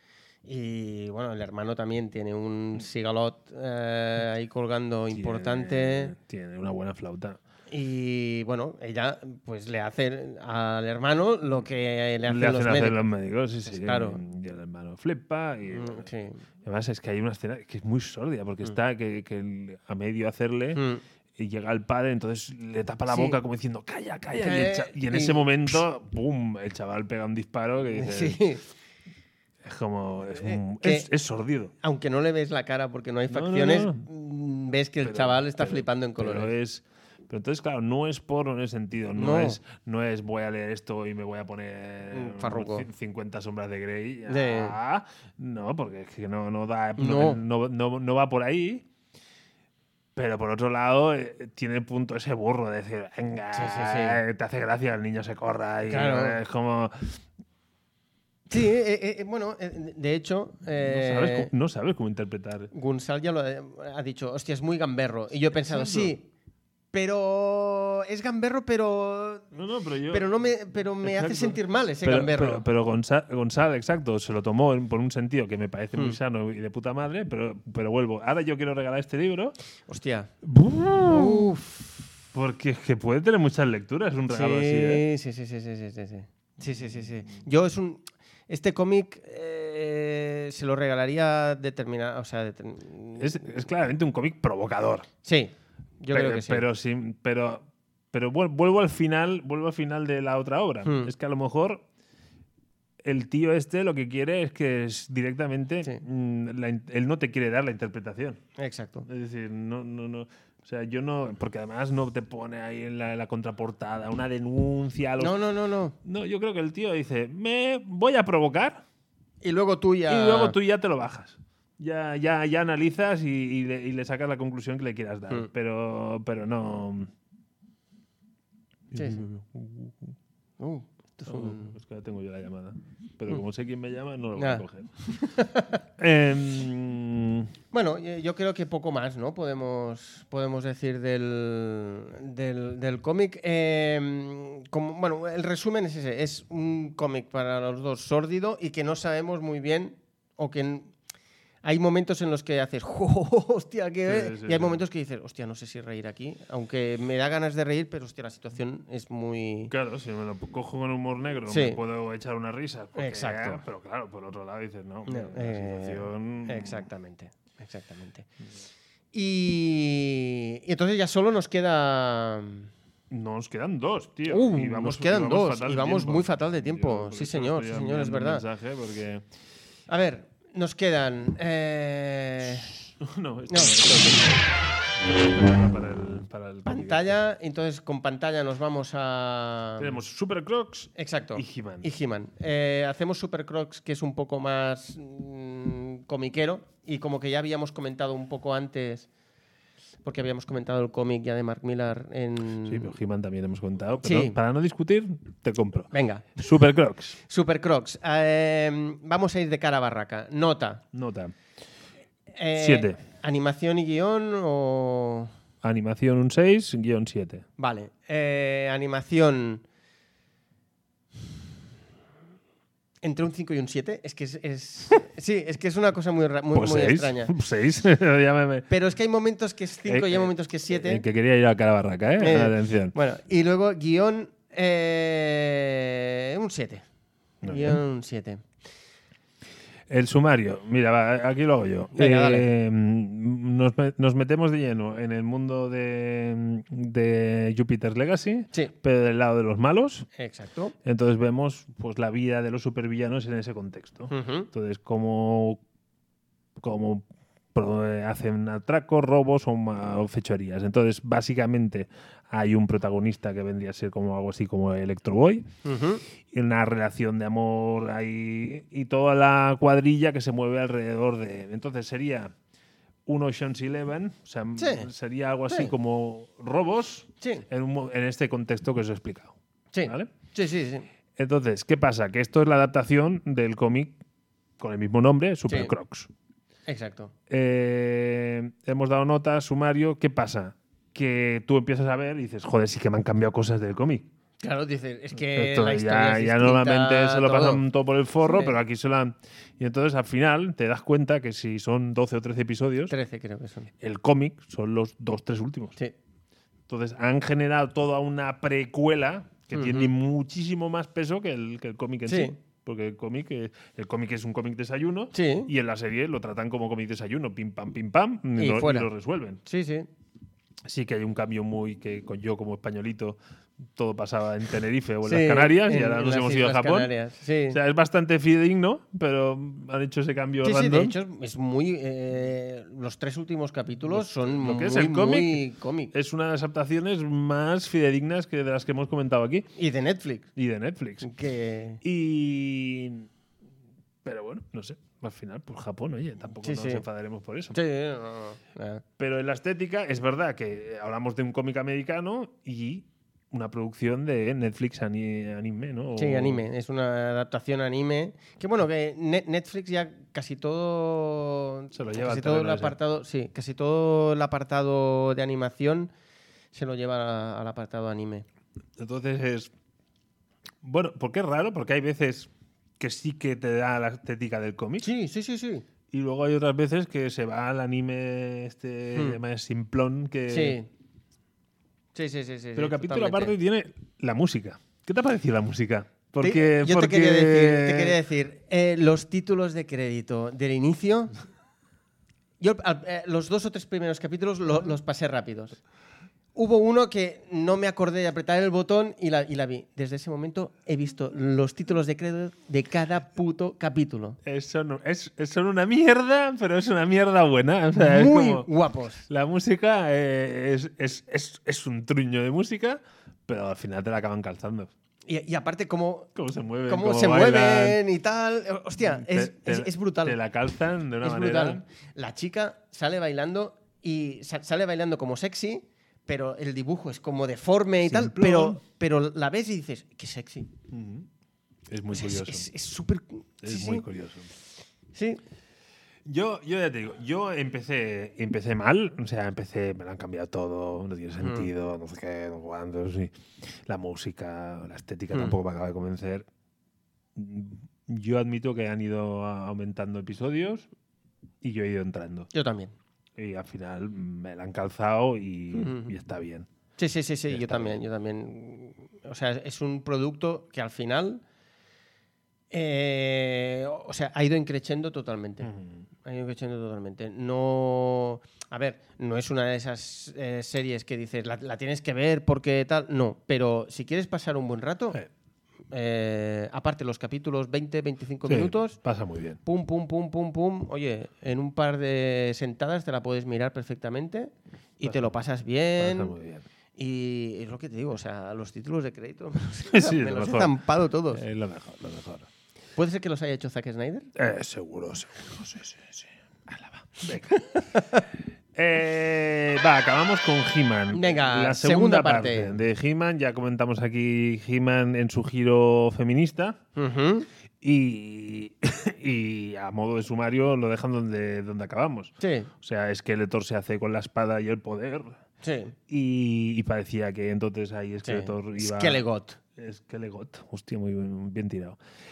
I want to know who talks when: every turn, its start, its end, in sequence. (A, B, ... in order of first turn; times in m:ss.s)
0:00.4-0:06.2 A
0:05.1-0:07.4 B
0:07.7-0:13.0 A
0:12.3-0:16.1 B
0:13.7-0:14.2 A
0:15.7-0:16.4 A
0:16.6-0:20.8 B
0:20.8-0:21.0 A
0:21.4-0:28.4 B
0:23.1-0:23.4 A
0:24.4-0:25.8 A
0:27.9-0:28.6 A
0:29.6-0:31.7 B
0:30.4-0:31.1 A
0:31.8-0:36.5 A
0:33.3-0:34.0 B
0:35.0-0:48.9 B
0:39.2-0:39.6 A
0:42.1-0:42.9 A
0:44.3-0:44.8 A
0:47.0-0:47.4 A
0:50.2-0:57.2 B
0:53.5-0:54.2 A
0:55.9-0:56.4 A
0:58.5-1:01.5 A
1:00.8-1:02.7 B
1:02.7-1:06.3 A
1:05.5-1:06.1 B
1:06.9-1:09.5 A
1:09.5-1:10.3 B
1:10.1-1:12.6 A
1:11.0-1:19.6 B
1:19.9-1:20.3 A
1:20.4-1:21.6 B
1:21.0-1:21.9 A
1:22.3-1:25.0 B
1:24.3-1:33.5 A
1:26.7-1:27.0 B
1:33.2-1:35.1 B
1:35.2-1:36.6 A
1:36.1-1:41.8 B
1:40.8-1:41.1 A
1:43.0-1:48.4 B
1:48.6-1:49.1 A
1:49.1-1:55.4 B
1:55.2-1:56.0 A
1:56.0-1:58.8 B
1:59.4-2:00.6 A
2:00.1-2:07.1 B
2:08.9-2:10.2 B
2:08.9-2:09.3 A
2:10.6-2:11.8 A
2:11.3-2:14.9 B
2:14.4-2:15.8 A
2:16.0-2:17.5 B
2:17.7-2:30.9 A
2:31.6-2:39.7 A
2:34.1-2:34.8 B
2:39.7-2:46.9 B
2:41.5-2:41.8 A
2:43.0-2:43.6 A
2:45.1-2:48.3 A
2:49.1-2:52.7 A
2:53.1-2:59.2 B
2:54.3-2:58.4 A
2:59.9-3:02.8 A
3:03.0-3:07.2 B
3:03.5-3:03.8 A
3:06.7-3:09.9 A
3:09.8-3:11.9 B
3:11.0-3:19.1 A
3:20.0-3:22.9 A
3:22.6-3:27.2 B
3:24.0-3:24.4 A
3:25.9-3:26.4 A
3:27.3-3:30.8 A
3:30.9-3:31.4 B
3:32.3-3:35.3 A
3:32.6-3:33.0 B
3:35.6-3:37.5 B
3:37.6-3:39.6 A
3:43.0-3:47.3 A
3:46.5-3:48.7 B
3:48.7-3:51.0 A
3:49.9-3:52.9 B
3:52.2-3:56.8 A
3:57.4-3:57.8 B
3:57.4-3:58.4 A
3:59.9-4:10.1 B
4:02.0-4:02.5 A
4:10.2-4:10.7 A
4:10.8-4:15.6 B
4:14.1-4:14.5 A
4:16.6-4:25.5 B
4:25.6-4:26.0 A
4:26.2-4:32.3 B
4:33.1-4:40.1 B
4:34.6-4:34.9 A
4:37.2-4:37.5 A
4:39.7-4:40.9 A
4:41.2-4:44.0 B
4:44.6-4:46.1 B
4:45.5-4:45.7 A
4:46.7-4:47.1 A
4:47.3-4:54.1 B
4:54.4-4:57.6 A
4:55.2-5:02.9 B
4:58.2-4:58.6 A
5:02.9-5:03.7 A
5:03.8-5:05.8 B
5:06.7-5:19.4 B
5:09.5-5:09.9 A
5:12.1-5:12.4 A
5:15.1-5:15.5 A
5:18.4-5:18.9 A
5:19.4-5:19.9 A
5:20.6-5:23.2 B
5:23.8-5:26.9 B
5:25.0-5:27.6 A
5:27.5-5:31.0 B
5:30.4-5:35.9 A
5:33.9-5:39.5 B
5:39.6-5:40.3 A
5:40.4-5:41.1 B
5:41.0-5:41.8 A
5:41.8-5:43.1 B
5:44.0-5:47.6 B
5:46.4-5:46.8 A
5:47.5-5:48.8 A
5:49.0-5:56.4 B
5:56.0-6:05.9 A
6:01.7-6:02.8 B
6:06.5-6:08.3 A
6:08.8-6:09.5 B
6:10.6-6:14.9 B
6:14.8-6:15.6 A
6:15.9-6:20.6 B
6:18.9-6:19.2 A
6:20.3-6:20.7 A
6:22.0-6:23.3 A
6:22.6-6:28.0 B
6:26.2-6:31.1 A
6:32.4-6:35.6 A
6:36.4-6:44.2 A
6:44.2-6:48.5 B
6:47.8-6:49.1 A
6:49.1-6:54.7 B
6:55.1-6:56.1 A
6:56.2-6:57.8 B
6:56.7-7:00.2 A
6:58.8-7:01.6 B
7:01.0-7:10.5 A
7:07.8-7:08.6 B
7:10.7-7:11.1 B
7:11.7-7:12.5 B
7:11.9-7:13.8 A
7:13.4-7:14.3 B
7:14.9-7:15.2 A
7:16.1-7:26.3 B
7:21.2-7:21.5 A
7:27.2-7:30.7 B
7:31.4-7:32.3 B
7:32.3-7:32.7 A
7:33.2-7:36.5 B
7:35.5-7:35.9 A
7:36.8-7:41.2 A
7:37.3-7:37.8 B
7:42.5-7:45.5 A
7:45.4-7:45.8 B
7:46.0-7:55.0 A
7:55.7-7:58.8 A
7:58.3-7:59.4 B
7:59.4-8:06.2 A
8:04.8-8:05.1 B
8:05.8-8:06.4 B
8:06.8-8:11.2 A
8:09.7-8:10.5 B
8:11.1-8:12.3 B
8:12.8-8:14.1 A
8:14.2-8:17.4 B
8:17.3-8:18.0 A
8:18.6-8:26.6 B
8:20.9-8:22.6 A
8:26.8-8:27.3 A
8:27.6-8:35.2 B
8:32.2-8:32.5 A
8:35.4-8:35.8 A
8:35.9-8:39.0 B
8:38.0-8:39.4 A
8:39.6-8:41.8 B